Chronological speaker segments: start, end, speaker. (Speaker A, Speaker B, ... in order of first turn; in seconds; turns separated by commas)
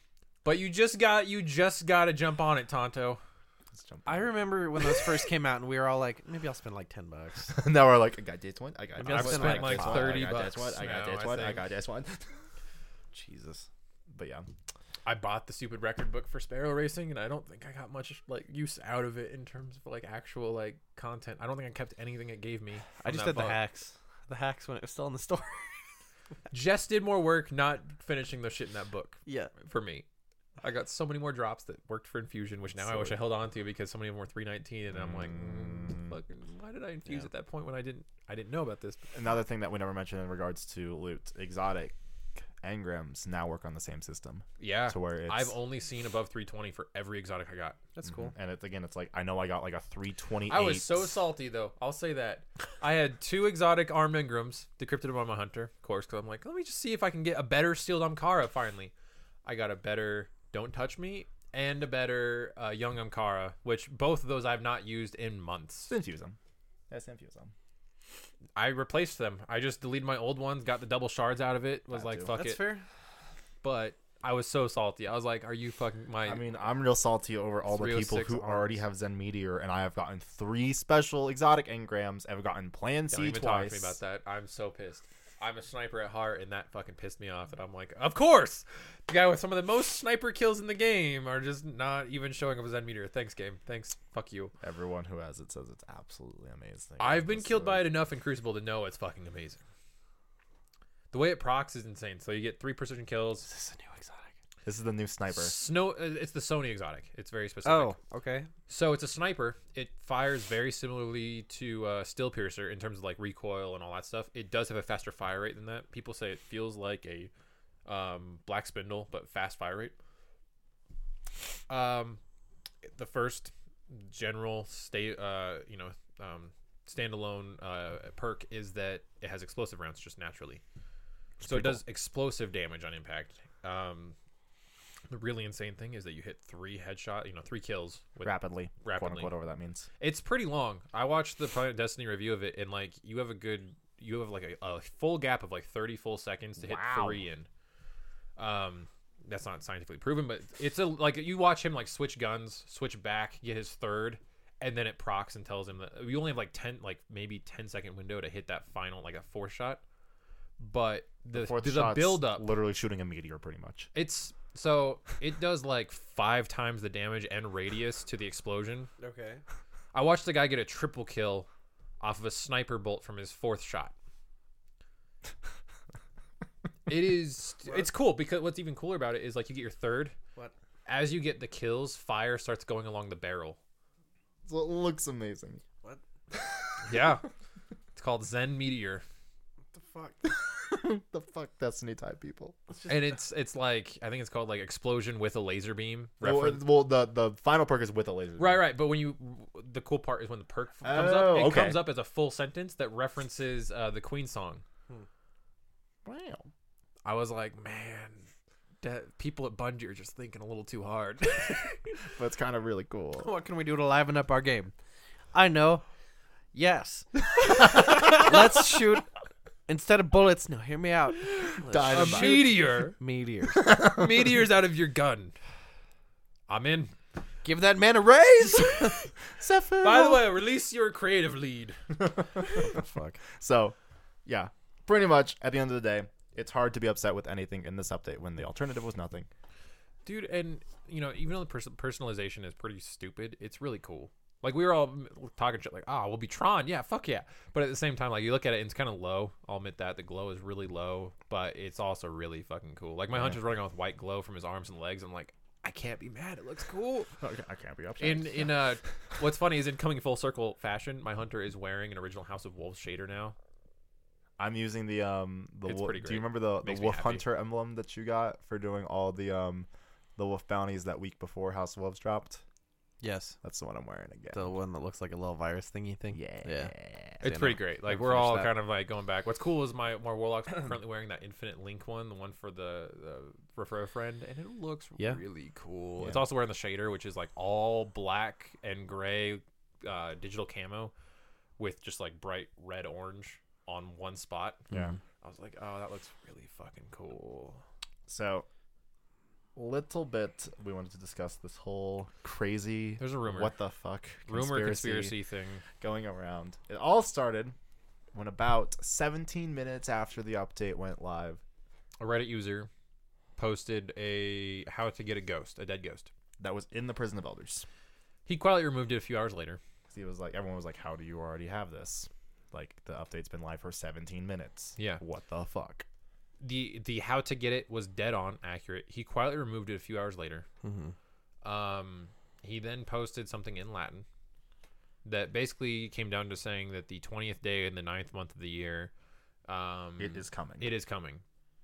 Speaker A: 0.4-3.2, Speaker B: 3.7-5.0, Speaker C: 4.0-7.6, Speaker B: 7.5-12.4, Speaker C: 9.0-10.3, Speaker A: 9.1-11.6, Speaker C: 13.1-13.7, Speaker B: 14.1-14.5, Speaker A: 15.1-23.6, Speaker C: 23.0-25.9, Speaker A: 26.5-30.1, Speaker C: 29.2-29.5, Speaker A: 30.6-39.0, Speaker B: 32.8-33.1, Speaker B: 35.0-36.1, Speaker B: 39.1-41.9, Speaker B: 42.6-45.5, Speaker A: 44.6-47.9, Speaker C: 48.0-48.3, Speaker B: 48.0-51.2, Speaker A: 50.5-58.9, Speaker A: 59.4-65.9, Speaker B: 65.9-66.4, Speaker B: 66.9-67.5, Speaker A: 68.5-72.6, Speaker B: 71.9-72.4, Speaker C: 72.3-72.8, Speaker A: 73.6-76.4, Speaker B: 76.2-84.0, Speaker A: 77.7-78.8, Speaker A: 83.1-94.5, Speaker B: 94.6-97.9, Speaker A: 97.0-99.6, Speaker A: 101.1-103.5, Speaker C: 103.5-104.3, Speaker B: 104.6-105.5, Speaker A: 105.3-108.0, Speaker C: 107.6-108.5, Speaker A: 108.7-117.3, Speaker A: 117.8-119.9, Speaker A: 121.7-122.2, Speaker A: 122.8-130.6, Speaker B: 131.4-131.8, Speaker A: 131.4-134.1, Speaker A: 135.1-139.3, Speaker B: 138.2-139.9, Speaker A: 140.0-147.5, Speaker B: 146.6-147.2, Speaker A: 148.4-159.8, Speaker A: 160.6-162.5, Speaker B: 161.3-163.9, Speaker A: 163.9-168.9, Speaker C: 169.0-169.4, Speaker A: 169.9-171.5, Speaker A: 172.0-173.9, Speaker A: 176.9-180.1, Speaker A: 180.9-183.6, Speaker B: 184.4-185.6, Speaker B: 186.3-187.1, Speaker A: 186.9-187.2, Speaker A: 187.9-189.0, Speaker C: 189.7-190.3, Speaker B: 190.2-192.6, Speaker A: 192.9-196.6, Speaker B: 196.2-198.6, Speaker A: 198.4-204.6, Speaker B: 200.8-201.8, Speaker B: 206.0-206.5, Speaker A: 207.0-208.2, Speaker A: 208.8-211.8, Speaker B: 212.1-213.3, Speaker C: 213.2-214.7, Speaker C: 215.3-215.8, Speaker C: 216.5-219.1, Speaker A: 217.7-218.2, Speaker C: 219.7-223.7, Speaker B: 221.6-222.4, Speaker A: 221.9-222.9, Speaker B: 223.5-224.1, Speaker A: 223.7-225.3, Speaker A: 226.5-226.9, Speaker C: 227.4-229.0, Speaker B: 229.4-230.2, Speaker A: 229.8-231.8, Speaker C: 232.6-233.2, Speaker B: 233.4-233.7, Speaker B: 234.2-239.3, Speaker A: 240.0-257.2, Speaker B: 253.1-253.4, Speaker B: 257.2-258.6, Speaker A: 258.0-263.3, Speaker B: 264.4-272.4, Speaker A: 265.6-267.2, Speaker C: 273.0-273.4, Speaker B: 273.4-274.4, Speaker C: 274.3-278.5, Speaker B: 276.1-277.2, Speaker A: 277.2-290.9, Speaker A: 291.6-294.6, Speaker B: 294.7-295.0, Speaker A: 295.2-297.6, Speaker B: 298.1-298.4, Speaker B: 299.6-305.1, Speaker A: 303.0-303.5, Speaker A: 304.3-305.6, Speaker B: 305.8-307.5, Speaker B: 308.1-311.4, Speaker A: 312.0-312.7, Speaker A: 313.4-316.1, Speaker B: 316.4-317.6, Speaker A: 318.2-319.6, Speaker B: 319.9-325.8, Speaker A: 326.4-330.4, Speaker C: 330.6-330.9, Speaker A: 331.4-334.0, Speaker A: 335.0-338.9, Speaker A: 339.5-341.2, Speaker B: 340.0-340.7